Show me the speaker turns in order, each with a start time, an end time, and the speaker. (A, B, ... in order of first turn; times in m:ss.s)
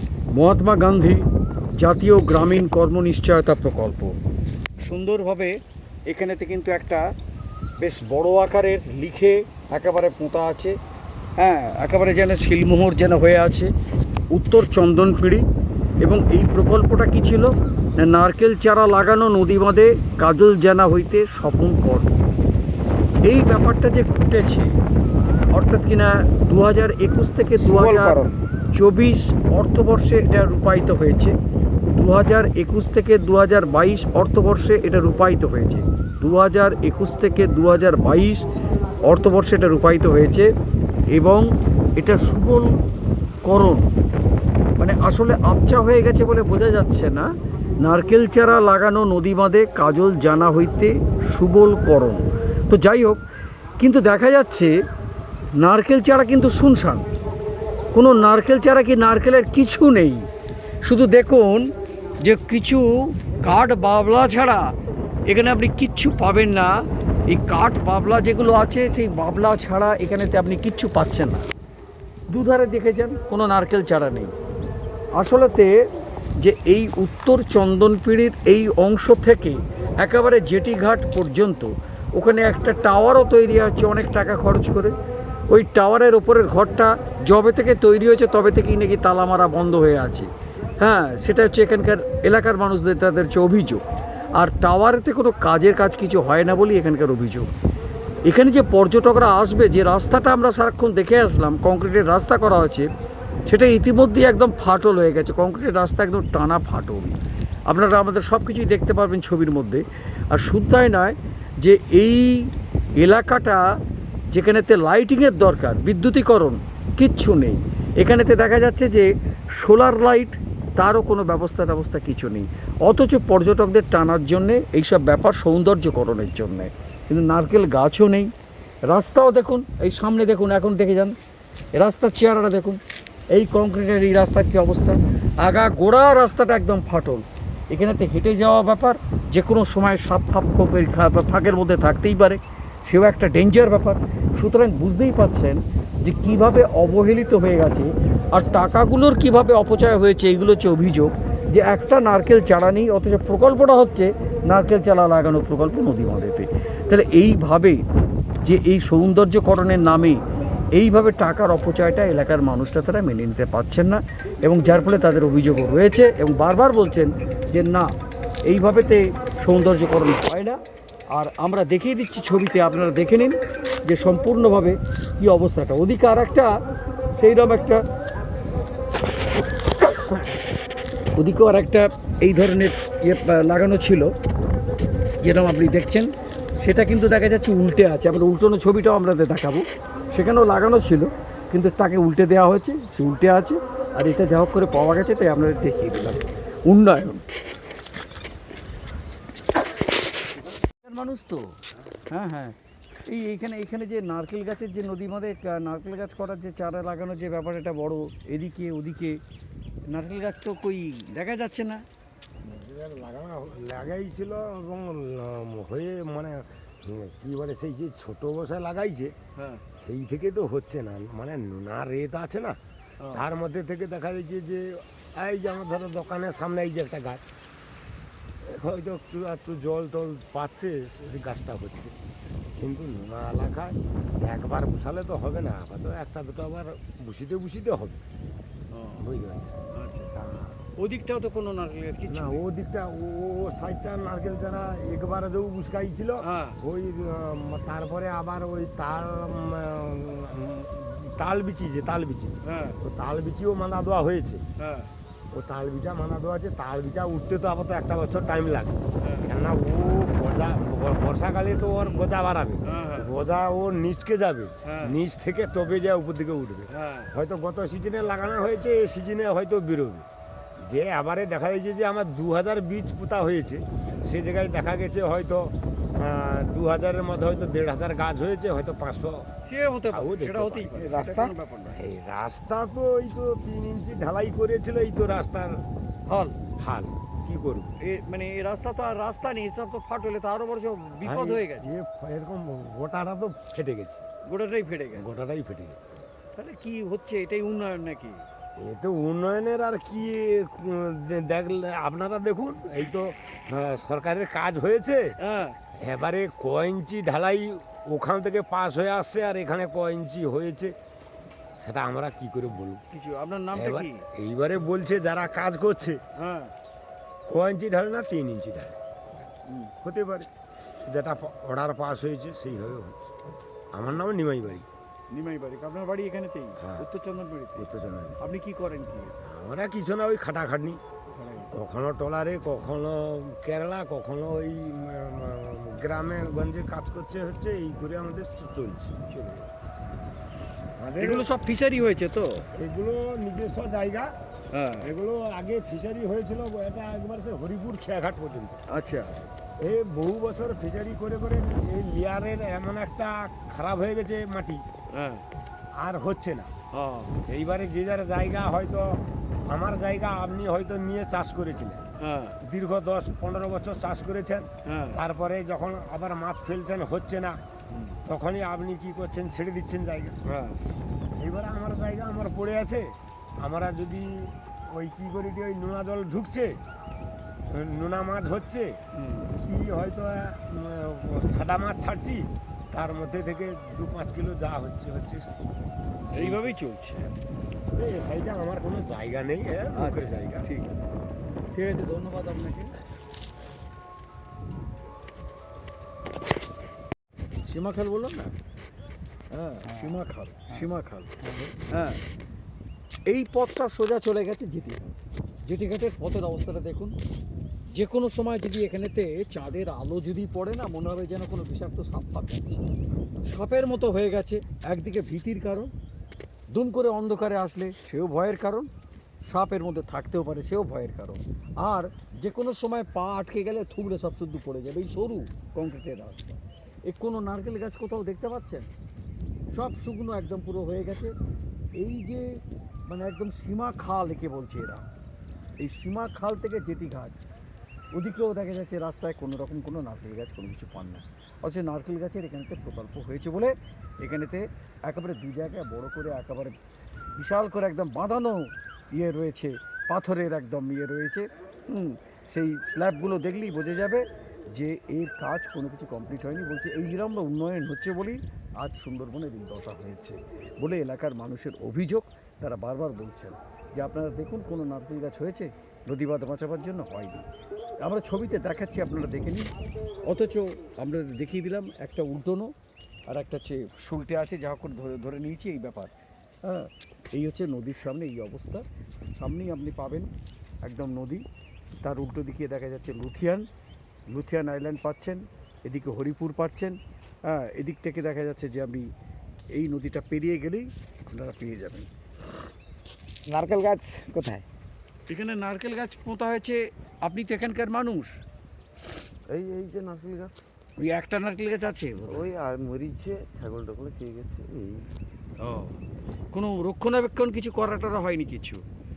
0:00.3-0:04.2 A
0:04.8-0:05.6 A
0:06.1-0:07.0 A
0:07.8-0:10.8 A
0:11.4-0:13.7 A
0:14.3-0:15.4 A
0:16.0-0:22.1 A
0:23.2-0:24.8 A
0:25.5-0:28.2 A
0:27.6-0:28.3 B
0:28.7-0:31.3 A
0:31.9-0:38.4 A
0:39.0-0:40.5 A
0:41.1-0:42.8 A
0:43.4-0:43.9 A
0:44.8-0:53.2 A
0:53.8-0:54.7 A
0:55.6-0:57.1 A
0:57.9-1:00.3 A
1:00.8-1:01.7 A
1:02.2-1:04.7 A
1:05.3-1:06.7 A
1:07.3-1:11.5 A
1:12.3-1:14.3 A
1:15.1-1:15.8 A
1:16.4-1:24.9 A
1:25.5-1:33.8 A
1:34.3-1:37.5 A
1:38.2-1:42.9 A
1:43.4-1:53.6 A
1:54.3-2:08.3 A
2:08.9-2:11.2 A
2:11.7-2:12.8 A
2:13.3-2:37.8 A
2:38.4-2:40.2 A
2:40.7-2:47.9 A
2:48.4-2:50.6 A
2:51.1-2:56.6 A
2:57.1-2:57.8 A
3:01.2-3:04.1 A
3:05.2-3:17.2 A
3:20.8-3:29.2 A
3:29.9-3:31.8 A
3:32.4-3:39.2 B
3:39.4-3:39.6 A
3:39.7-3:42.6 B
3:43.1-3:47.2 B
3:48.4-3:51.9 B
3:52.6-3:58.0 B
3:58.7-3:59.1 A
3:59.0-3:59.6 B
3:59.7-4:00.1 A
4:00.2-4:00.4 B
4:00.7-4:02.4 A
4:02.1-4:14.4 B
4:06.2-4:06.6 A
4:12.4-4:12.8 A
4:14.6-4:14.9 A
4:15.3-4:30.1 B
4:19.0-4:19.3 A
4:22.6-4:23.1 A
4:24.6-4:25.0 A
4:26.7-4:27.1 A
4:30.6-4:39.2 B
4:39.4-4:41.8 A
4:39.9-4:45.6 B
4:46.1-4:46.4 A
4:46.6-4:47.7 B
4:47.8-4:51.7 A
4:51.0-4:54.0 B
4:54.2-4:55.0 A
4:55.0-4:55.8 B
4:56.4-4:58.2 A
4:58.6-5:05.1 B
5:05.2-5:05.6 A
5:05.8-5:10.7 B
5:11.6-5:12.8 B
5:12.9-5:14.0 A
5:13.5-5:16.0 B
5:16.2-5:16.5 A
5:17.3-5:18.8 B
5:19.4-5:19.7 A
5:19.8-5:20.3 B
5:20.8-5:23.0 B
5:23.7-5:24.6 B
5:25.1-5:27.7 A
5:26.6-5:26.8 B
5:27.6-5:28.2 B
5:28.2-5:29.1 A
5:29.2-5:30.8 B
5:31.1-5:31.5 A
5:31.5-5:39.4 B
5:40.8-5:41.3 B
5:41.0-5:42.4 A
5:42.6-5:44.1 B
5:44.5-5:44.9 A
5:44.8-5:48.6 B
5:48.7-5:49.1 A
5:49.6-5:54.6 B
5:54.9-5:55.2 A
5:55.8-5:56.5 B
5:56.7-5:57.2 A
5:57.2-6:01.8 B
6:02.0-6:02.3 A
6:02.4-6:07.4 B
6:04.6-6:05.0 A
6:08.0-6:10.2 B
6:10.3-6:10.6 A
6:11.2-6:16.6 B
6:17.5-6:18.8 B
6:18.9-6:19.3 A
6:19.4-6:25.3 B
6:26.1-6:27.1 A
6:26.2-6:26.5 B
6:27.7-6:30.4 B
6:29.7-6:30.7 A
6:31.5-6:32.8 A
6:37.4-6:38.3 A
6:39.3-6:41.2 A
6:41.7-6:42.0 A
6:43.1-6:44.8 A
6:45.4-6:46.9 A
6:47.7-6:52.6 A
6:53.2-6:55.7 A
6:56.5-6:58.7 A
6:59.3-7:08.7 A
7:09.5-7:11.2 A
7:11.8-7:14.9 A
7:15.6-7:17.2 A
7:17.9-7:26.6 A
7:27.2-7:47.2 A
7:47.8-7:49.5 A
7:50.0-7:52.5 A
7:53.1-7:58.6 A
7:59.2-8:00.1 A
8:00.6-8:01.2 A
8:01.8-8:03.5 A
8:04.1-8:08.9 A
8:09.5-8:11.9 A
8:13.3-8:14.4 B
8:15.1-8:18.2 A
8:19.3-8:20.3 C
8:20.8-8:22.3 A
8:22.1-8:24.9 C
8:25.4-8:25.8 A
8:26.3-8:28.6 A